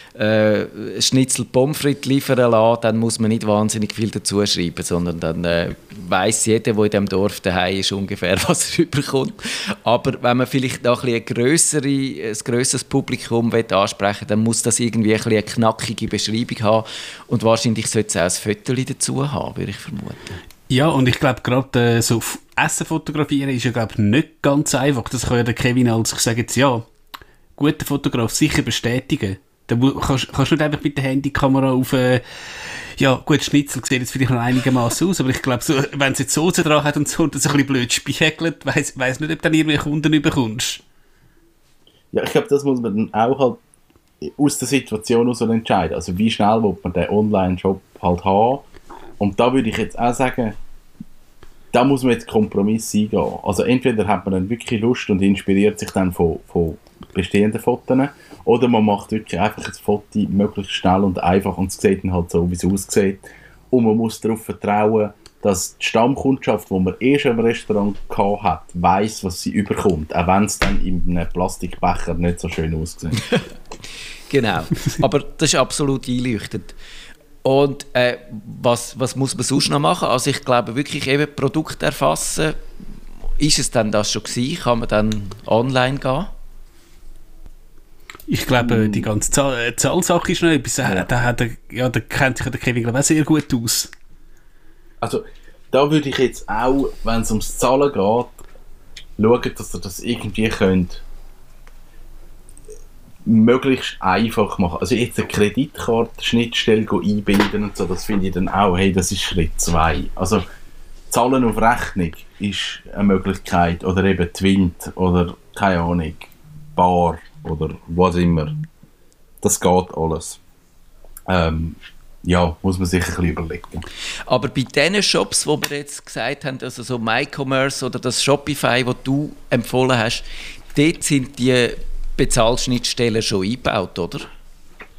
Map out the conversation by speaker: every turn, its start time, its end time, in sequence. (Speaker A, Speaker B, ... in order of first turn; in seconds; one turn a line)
Speaker A: 0.1-20.4
Speaker B: 20.7-26.9
Speaker B: 27.6-32.2
Speaker B: 33.0-40.8
Speaker C: 42.1-43.6
Speaker C: 44.2-48.6
Speaker C: 49.2-50.5
Speaker C: 51.7-73.2
Speaker A: 74.3-76.7
Speaker A: 77.4-82.6
Speaker A: 83.4-86.3
Speaker B: 88.3-93.9
Speaker C: 88.6-89.1
Speaker C: 90.8-91.1
Speaker C: 95.0-98.3
Speaker C: 99.2-101.0
Speaker C: 103.2-110.4
Speaker C: 111.1-118.6
Speaker C: 119.4-120.4
Speaker C: 121.3-123.8
Speaker A: 124.3-134.3